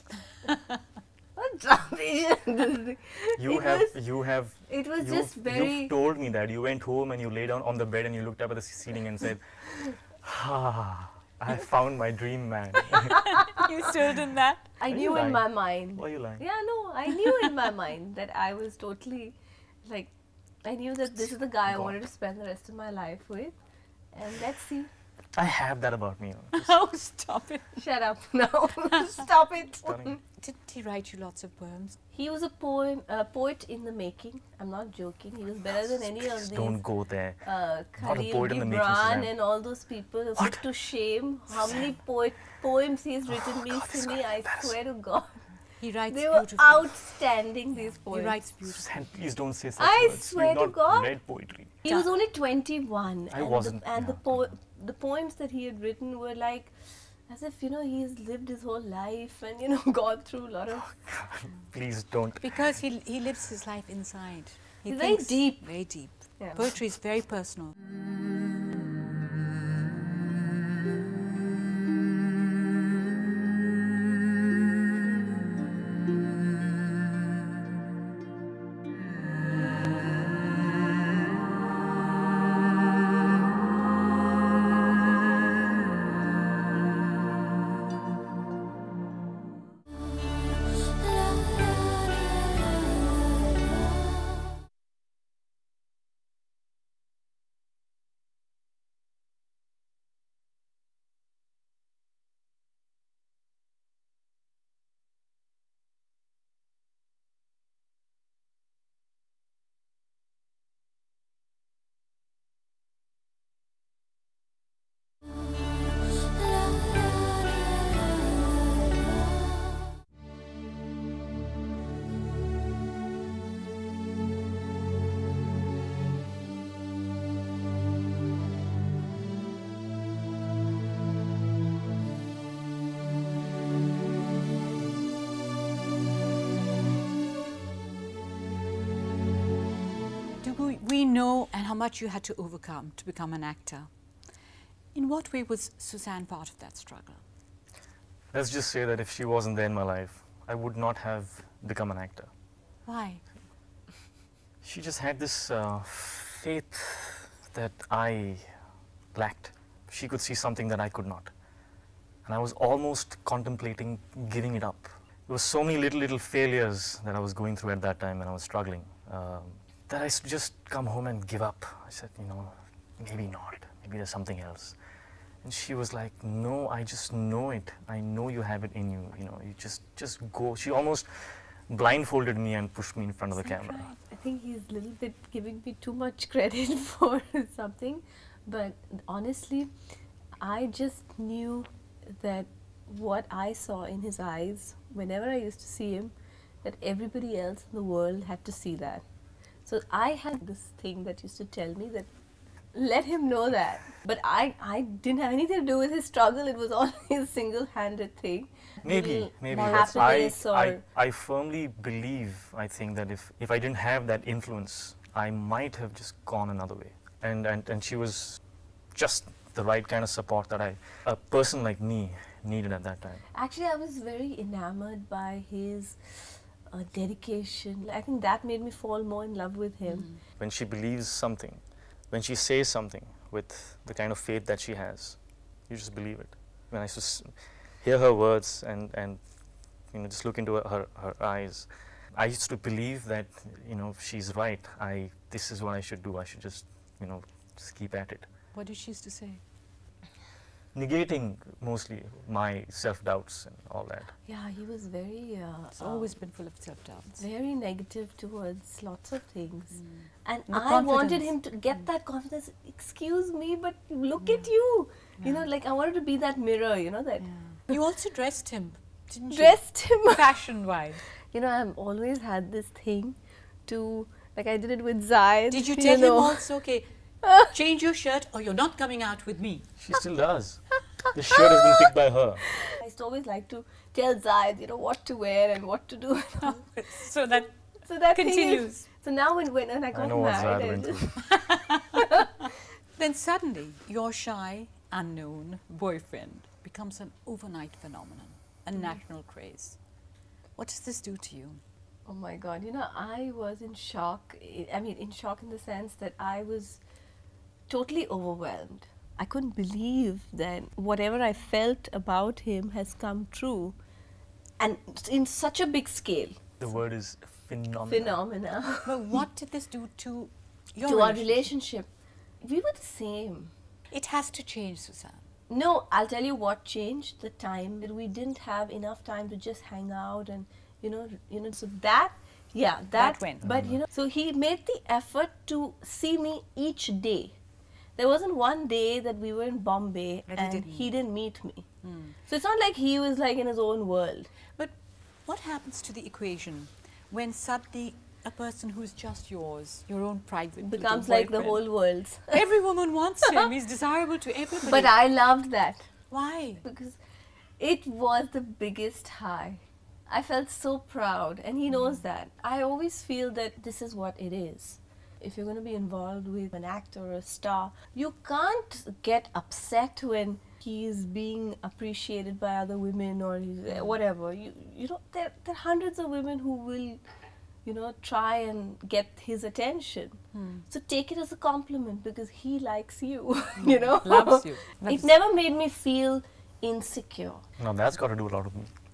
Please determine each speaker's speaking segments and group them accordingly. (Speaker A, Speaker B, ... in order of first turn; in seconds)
Speaker A: 1.4-3.9, 4.7-5.9, 14.8-20.1, 20.6-23.5, 24.1-24.9, 27.8-30.2, 32.1-36.8, 37.4-45.4, 46.1-48.4, 49.8-51.1, 51.8-56.7, 57.3-60.9, 64.9-66.7, 183.4-189.7, 190.4-199.0, 199.6-202.1, 202.7-210.8, 223.3-230.1, 254.2-256.1, 257.2-267.7, 269.3-270.3, 271.2-276.4, 282.6-286.7, 287.8-291.4, 291.9-292.4, 302.1-306.8, 307.7-313.8, 314.6-316.4, 317.9-319.2, 320.8-321.9, 322.4-323.5, 325.5-337.4, 338.0-341.7, 342.2-344.3, 350.6-352.4, 354.6-355.9, 356.6-357.0, 357.6-377.0, 377.6-387.4
Speaker B: 3.4-13.3, 14.9-16.4, 21.7-21.9, 25.3-26.7, 29.8-30.2, 35.9-37.4, 38.0-39.3, 40.4-40.6, 43.3-44.7, 48.6-51.7, 53.3-54.5, 60.8-62.6, 148.3-152.3, 154.6-158.6, 159.1-161.3, 162.2-174.8, 175.4-183.9, 208.8-218.4, 218.9-223.2, 230.4-239.3, 239.8-248.3, 250.7-254.1, 279.8-282.5, 289.9-291.1, 316.6-318.2, 333.4-333.8, 387.6-388.7
Speaker C: 13.2-14.7, 26.5-27.8, 30.4-32.0, 45.8-47.1, 47.9-49.0, 62.4-67.7, 140.4-143.9, 144.9-147.2, 152.8-153.2, 209.5-210.3, 229.9-230.2, 248.5-249.4, 255.8-257.2, 259.7-261.3, 265.2-265.4, 267.2-271.0, 275.5-279.7, 286.4-288.9, 291.2-292.0, 293.0-299.8, 300.6-301.6, 318.9-321.5, 323.9-325.2, 332.9-333.5, 340.3-340.9, 341.8-342.1, 345.2-351.6, 352.3-354.9, 356.1-356.6, 380.3-380.6, 383.6-385.1